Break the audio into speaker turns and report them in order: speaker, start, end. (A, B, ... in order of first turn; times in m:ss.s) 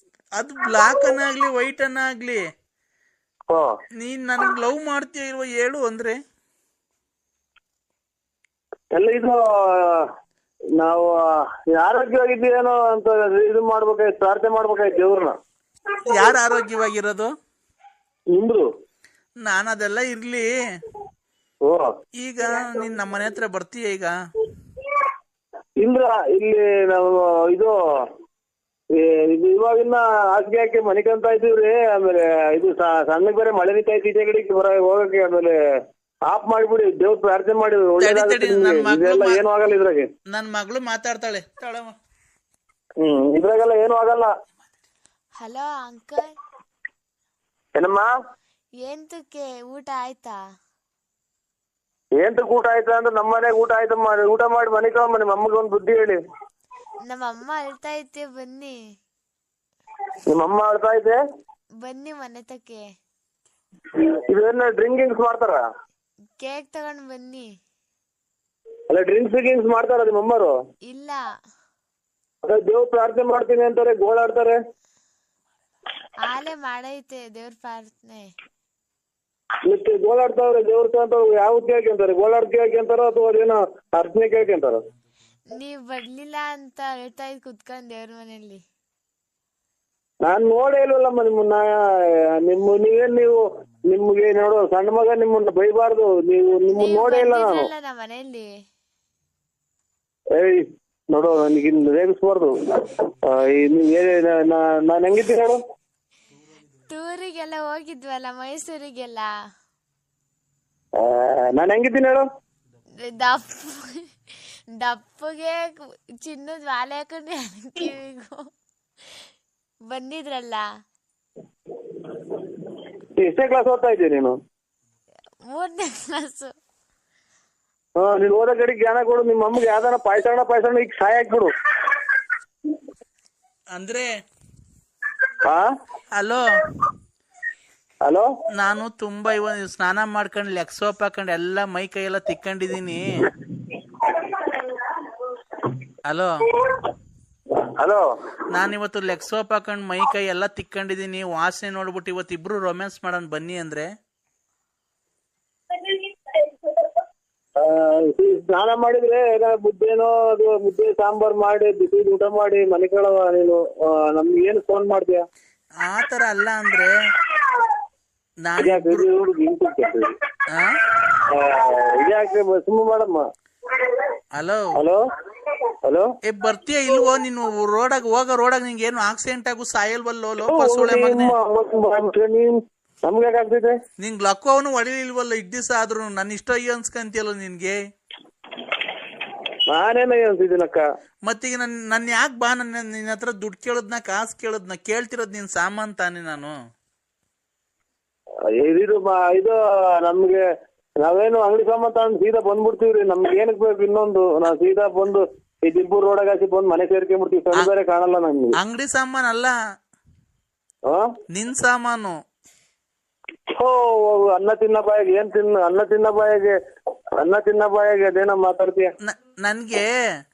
0:00.4-0:02.4 A
0:04.0-0:06.2 A
0:08.9-0:10.1 B
0:10.8-0:15.4 B
0:16.0-0:17.3 A
0:18.3-0:18.6 B
0:19.4-0:20.5 A
0:21.6-0:21.9 B
0:22.2-0:24.1 A
0:25.8-0:27.8 B
0:28.9-0:35.6 B
0:36.3-0:40.1 B
0:38.0-0:39.4 A
0:40.3-0:41.9 A
0:43.0-0:44.3 B
0:45.4-0:46.3 C
0:47.7-0:48.1 B
0:48.8-0:50.4 C
0:52.2-0:56.2 B
0:57.0-0:58.8 C
1:00.2-1:01.2 B
1:01.8-1:02.8 C
1:04.3-1:05.6 B
1:06.4-1:07.5 C
1:08.9-1:10.5 B
1:10.9-1:11.2 C
1:12.4-1:14.6 B
1:16.2-1:18.3 C
1:19.6-1:24.8 B
1:25.5-1:28.6 C
1:30.2-1:37.7 B
1:36.7-1:38.5 C
1:40.3-1:45.6 B
1:46.9-1:49.3 C
1:51.0-1:52.2 B
1:53.0-1:54.0 C
1:54.8-1:58.4 C
1:59.8-2:00.6 C
2:03.2-2:04.4 B
2:05.5-2:06.5 C
2:08.0-2:11.5 B
2:13.7-2:14.1 A
2:16.2-2:16.4 A
2:18.5-2:23.1 A
2:24.1-2:24.5 B
2:26.0-2:26.5 A
2:27.6-2:28.0 B
2:28.5-2:33.9 A
2:37.6-2:45.2 B
2:45.8-2:47.0 A
2:48.4-2:49.0 A
2:48.6-2:50.1 B
2:50.5-2:50.8 A
2:51.2-2:53.2 B
2:54.4-2:54.7 A
2:55.8-2:56.1 B
2:56.2-3:01.4 A
3:00.5-3:03.8 B
3:04.0-3:07.8 A
3:09.7-3:10.8 B
3:11.3-3:16.5 A
3:18.6-3:20.4 B
3:21.0-3:28.6 B
3:28.6-3:29.5 A
3:30.9-3:31.1 B
3:31.3-3:32.2 A
3:33.6-3:36.6 B
3:37.2-3:38.9 B
3:39.0-3:39.9 A